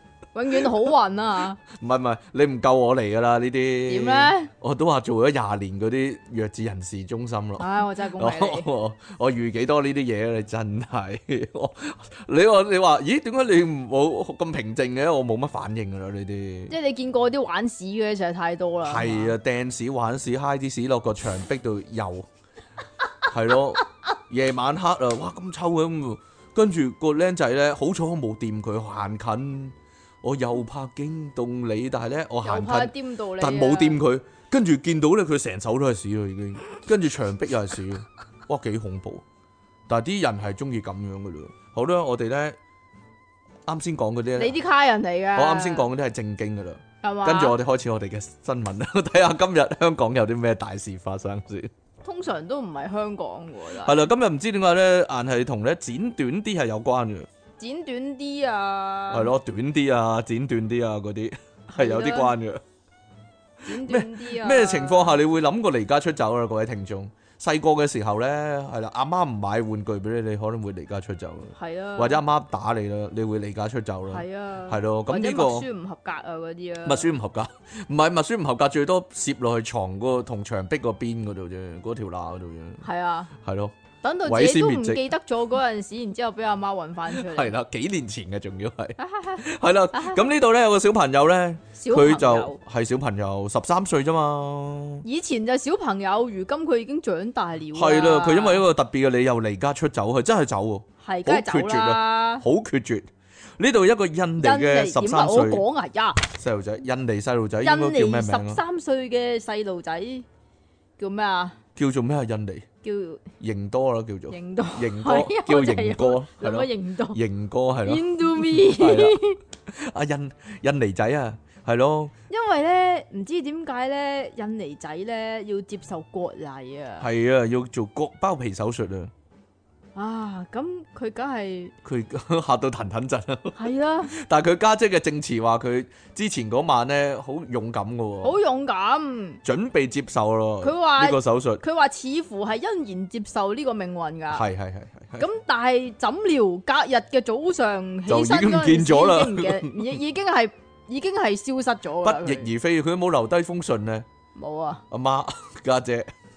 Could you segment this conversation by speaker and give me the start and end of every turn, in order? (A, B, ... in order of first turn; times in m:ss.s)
0:00.3-0:01.6 A
0:01.7-0:16.7 B
0:03.9-0:04.5 A
0:07.6-0:08.7 A
0:16.7-0:19.3 A
0:18.8-0:22.3 B
0:23.3-0:39.2 B
0:32.4-0:34.0 A
0:39.9-0:42.6 B
0:43.6-0:44.5 B
0:44.4-0:45.9 A
0:45.3-0:51.7 B
0:47.0-0:47.6 A
0:52.0-0:54.0 A
0:53.8-0:57.3 B
0:57.6-0:59.3 A
0:59.1-1:02.6 B
1:01.7-1:02.3 A
1:03.6-1:05.2 A
1:03.7-1:15.7 B
1:11.5-1:12.2 A
1:14.1-1:17.1 A
1:16.8-1:22.8 B
1:22.8-1:23.3 A
1:23.4-1:23.7 B
1:24.0-1:27.5 A
1:24.2-1:25.0 B
1:27.1-1:35.0 B
1:29.0-1:30.2 A
1:31.8-1:32.6 A
1:35.0-1:38.6 A
1:37.7-1:45.6 B
1:41.0-1:42.4 A
1:44.4-1:46.2 A
1:46.3-1:48.6 B
1:47.6-1:50.2 A
1:51.0-1:51.6 A
1:51.8-1:52.6 B
1:52.8-1:53.2 A
1:53.4-2:02.1 B
1:54.3-1:57.2 A
1:57.8-1:59.4 A
2:02.3-2:07.1 A
2:07.0-2:09.1 B
2:09.9-2:11.7 A
2:11.8-2:18.4 B
2:13.5-2:14.1 A
2:18.2-2:19.4 A
2:19.4-2:21.6 B
2:20.6-2:24.4 A
2:24.3-2:25.2 B
2:25.2-2:32.5 A
2:28.1-2:30.0 B
2:32.0-2:34.0 B
2:34.4-2:34.8 A
2:34.9-2:36.1 B